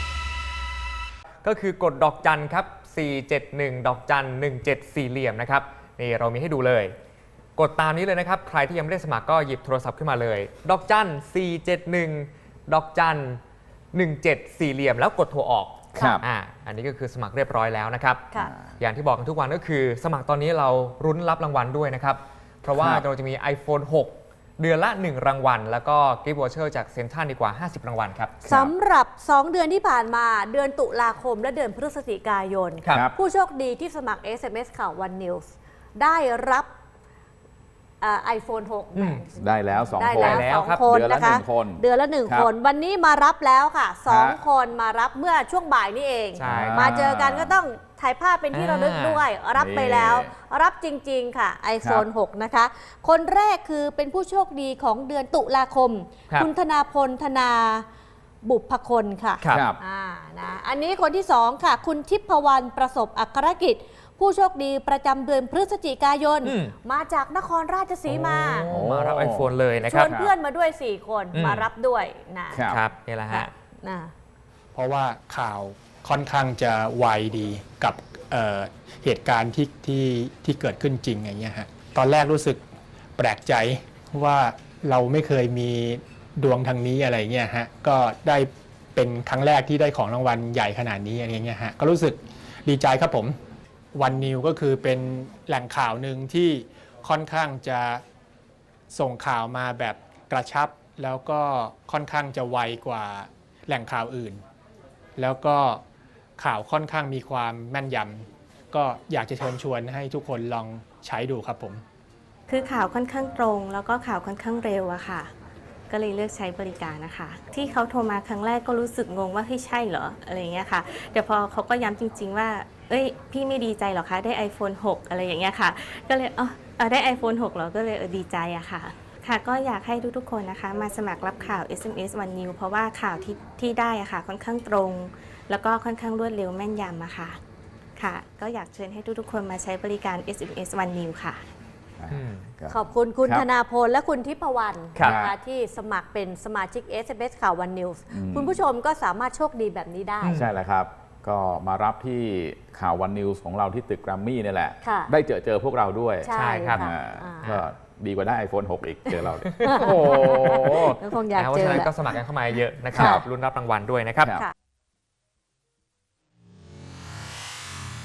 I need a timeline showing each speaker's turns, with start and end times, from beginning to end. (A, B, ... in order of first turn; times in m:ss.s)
0:01.4-0:06.9 A
0:07.6-0:13.4 A
0:13.9-0:28.6 A
0:16.0-0:16.2 B
0:18.4-0:18.7 B
0:22.7-0:23.0 B
0:28.5-0:36.7 C
0:38.0-0:57.8 C
0:39.0-0:39.2 A
0:39.4-0:42.5 B
0:40.1-0:40.9 A
0:44.1-0:44.4 B
0:46.4-0:47.1 A
0:46.4-0:47.6 B
0:48.5-0:49.2 A
0:49.5-0:50.3 B
0:58.4-1:08.7 C
0:59.5-0:59.8 B
1:06.4-1:06.7 A
1:08.1-1:10.1 A
1:08.7-1:10.3 B
1:09.8-1:12.6 C
1:11.3-1:11.7 A
1:12.5-1:12.8 B
1:12.7-1:13.5 A
1:13.3-1:14.1 C
1:14.7-1:22.6 D
1:23.2-1:33.3 D
1:33.9-1:38.0 D
1:38.9-1:44.4 D
1:45.2-1:45.8 D
1:46.4-1:51.8 D
1:52.5-1:55.3 E
1:55.9-2:17.4 E
2:18.0-2:21.4 E
2:22.0-2:23.4 B
2:22.1-2:22.5 A
2:22.7-2:30.4 C
2:25.0-2:25.3 B
2:28.1-2:28.6 B
2:30.2-2:30.5 A
2:30.3-2:41.0 B
2:34.8-2:35.1 C
2:36.2-2:37.5 C
2:36.3-2:36.9 A
2:39.1-2:41.9 C
2:39.4-2:39.7 A
2:41.4-2:44.3 A
2:42.9-2:43.2 C
2:42.9-2:43.2 B